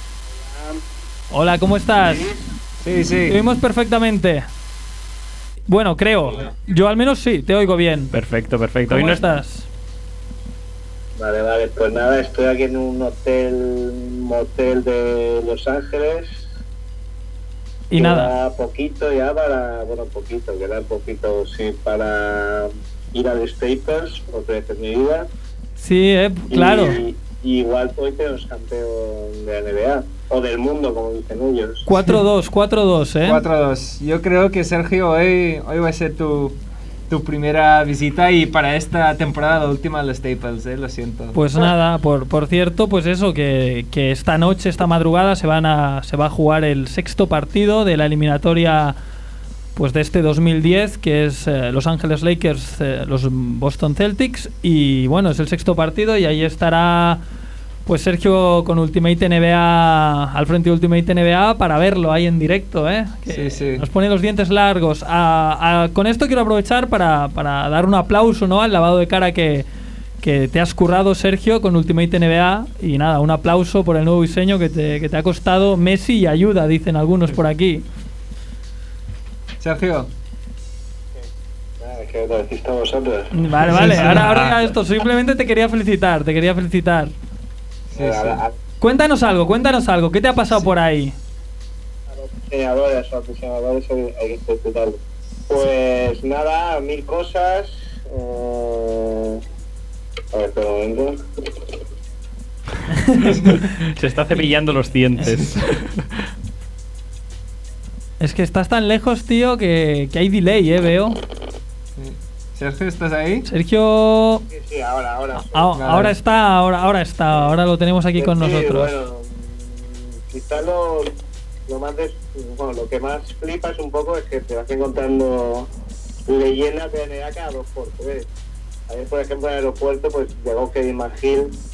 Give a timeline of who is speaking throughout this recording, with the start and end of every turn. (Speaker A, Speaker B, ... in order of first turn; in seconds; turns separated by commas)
Speaker A: 0.3-0.8, Speaker B: 1.3-2.2, Speaker A: 2.0-2.5, Speaker C: 2.8-3.4, Speaker B: 3.3-4.5, Speaker B: 5.7-8.1, Speaker D: 8.1-9.2, Speaker B: 8.9-9.7, Speaker A: 11.2-16.5, Speaker B: 17.9-18.3, Speaker A: 17.9-25.3, Speaker B: 25.8-27.0, Speaker A: 26.5-31.9, Speaker B: 31.9-33.4, Speaker C: 33.2-36.6, Speaker C: 37.1-41.6, Speaker B: 41.3-49.0, Speaker B: 49.8-57.2, Speaker B: 57.9-69.7, Speaker C: 63.3-63.8, Speaker B: 70.2-77.8, Speaker C: 79.6-80.1, Speaker A: 81.8-83.3, Speaker B: 83.3-87.1, Speaker C: 83.7-84.1, Speaker D: 83.8-84.6, Speaker A: 87.9-88.5, Speaker C: 87.9-88.4, Speaker B: 88.8-91.1, Speaker A: 92.1-99.4, Speaker A: 100.3-101.2, Speaker B: 102.9-103.7, Speaker D: 103.3-106.0, Speaker B: 105.2-105.5, Speaker B: 108.2-111.2, Speaker C: 112.0-113.5, Speaker B: 113.5-114.4, Speaker A: 114.5-115.7, Speaker B: 115.4-119.0, Speaker C: 115.7-116.1, Speaker A: 118.2-121.1, Speaker A: 121.7-125.7, Speaker A: 126.3-128.3, Speaker A: 128.9-131.5